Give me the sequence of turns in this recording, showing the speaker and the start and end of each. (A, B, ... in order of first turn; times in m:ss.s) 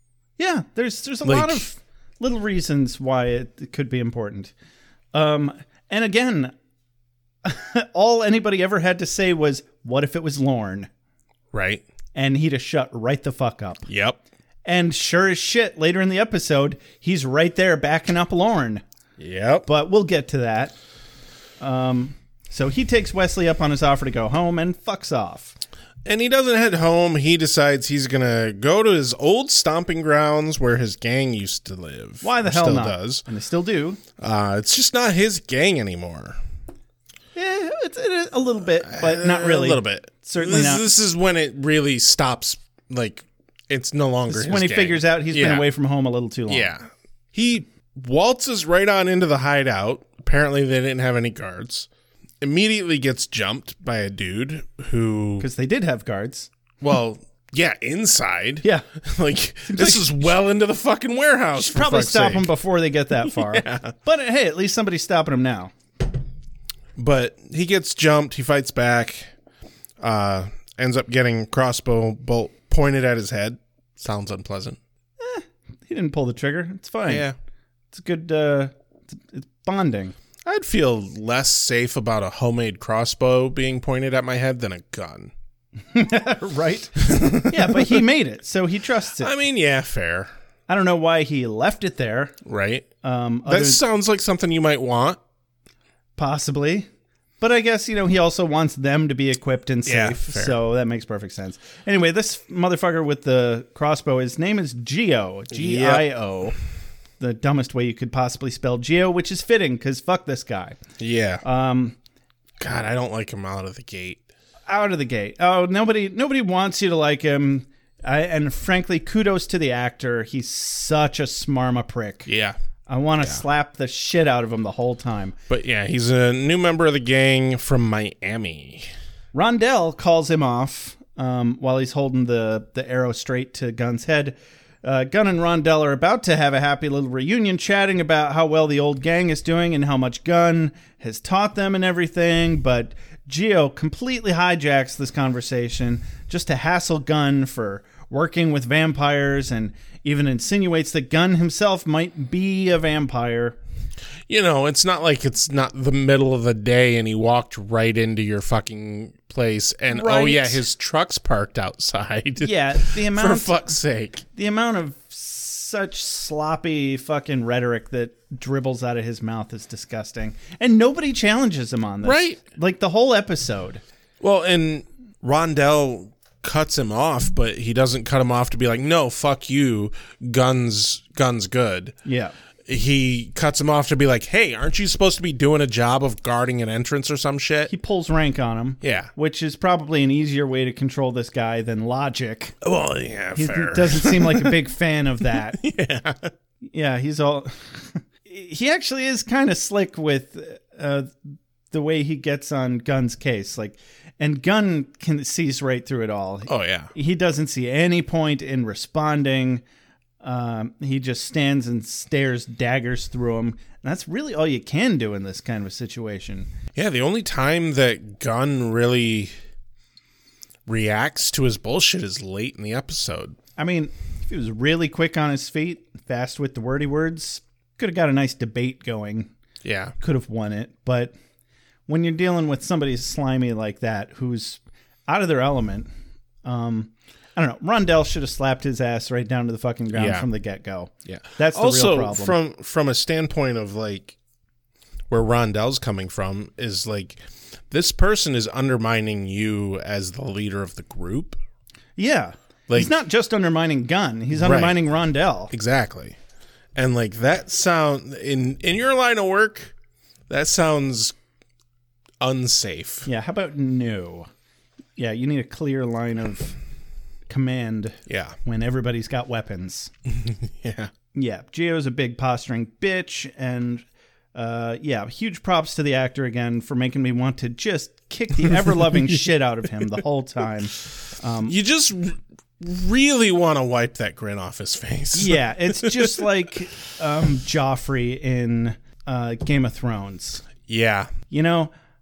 0:00.4-0:04.5 A
0:01.2-0:01.7 B
0:05.1-0:06.5 A
0:07.4-0:10.9 A
0:11.5-0:11.8 B
0:12.2-0:13.9 A
0:13.9-0:14.2 B
0:14.6-0:18.8 A
0:19.2-0:19.7 B
0:19.7-0:20.8 A
0:21.6-0:25.6 A
0:26.0-0:33.2 B
0:32.2-0:34.0 A
0:34.2-0:36.4 B
0:37.4-0:40.9 A
0:38.8-0:45.7 B
0:44.3-0:46.7 A
0:46.5-0:51.9 B
0:52.4-0:55.5 B
0:55.4-0:56.5 A
0:56.8-1:02.5 B
0:59.7-1:00.3 A
1:01.6-1:05.7 A
1:03.2-1:03.9 B
1:07.0-1:09.3 B
1:10.0-1:14.8 B
1:15.2-1:17.3 A
1:17.1-1:17.4 B
1:17.9-1:20.2 A
1:20.4-1:25.3 B
1:25.9-1:29.3 A
1:27.1-1:28.0 B
1:29.2-1:30.3 B
1:30.7-1:32.3 A
1:32.4-1:32.9 B
1:33.0-1:33.8 A
1:33.5-1:35.2 B
1:36.2-1:36.9 A
1:37.4-1:46.6 A
1:39.8-1:40.6 B
1:45.5-1:46.1 B
1:47.2-1:50.8 A
1:51.0-1:51.4 B
1:51.4-1:52.0 A
1:52.6-1:54.3 B
1:54.7-2:02.3 A
2:02.3-2:02.6 B
2:02.9-2:05.4 A
2:05.5-2:08.9 B
2:09.3-2:33.6 A
2:34.3-2:44.2 B
2:39.9-2:40.6 A
2:42.4-2:43.6 A
2:44.4-2:53.8 A
2:52.0-2:52.4 B
2:54.2-3:02.0 B
3:02.0-3:02.3 A
3:02.7-3:07.7 B
3:07.7-3:12.6 A
3:08.8-3:09.1 B
3:12.6-3:14.6 B
3:13.4-3:15.6 A
3:15.3-3:16.3 B
3:16.6-3:21.2 A
3:21.7-3:29.6 A
3:26.5-3:26.9 B
3:30.2-3:36.5 A
3:36.8-3:39.3 B
3:40.7-3:43.4 B
3:43.6-3:49.3 A
3:49.6-3:50.0 B
3:50.0-3:51.1 A
3:51.9-3:55.9 A
3:56.4-4:02.4 A
3:59.9-4:00.3 B
4:01.1-4:04.2 B
4:05.1-4:11.4 B
4:12.0-4:15.5 A
4:14.3-4:14.8 B
4:15.5-4:16.2 B
4:16.8-4:19.7 B
4:20.3-4:21.2 B
4:22.2-4:23.1 B
4:23.1-4:24.3 A
4:25.0-4:26.6 A
4:27.3-4:29.9 A
4:28.1-4:28.4 B
4:30.1-4:30.9 B
4:31.1-4:41.6 A
4:38.5-4:39.2 B
4:41.5-4:46.3 B
4:45.1-4:50.4 A
4:50.7-4:51.1 B
4:51.3-4:51.7 A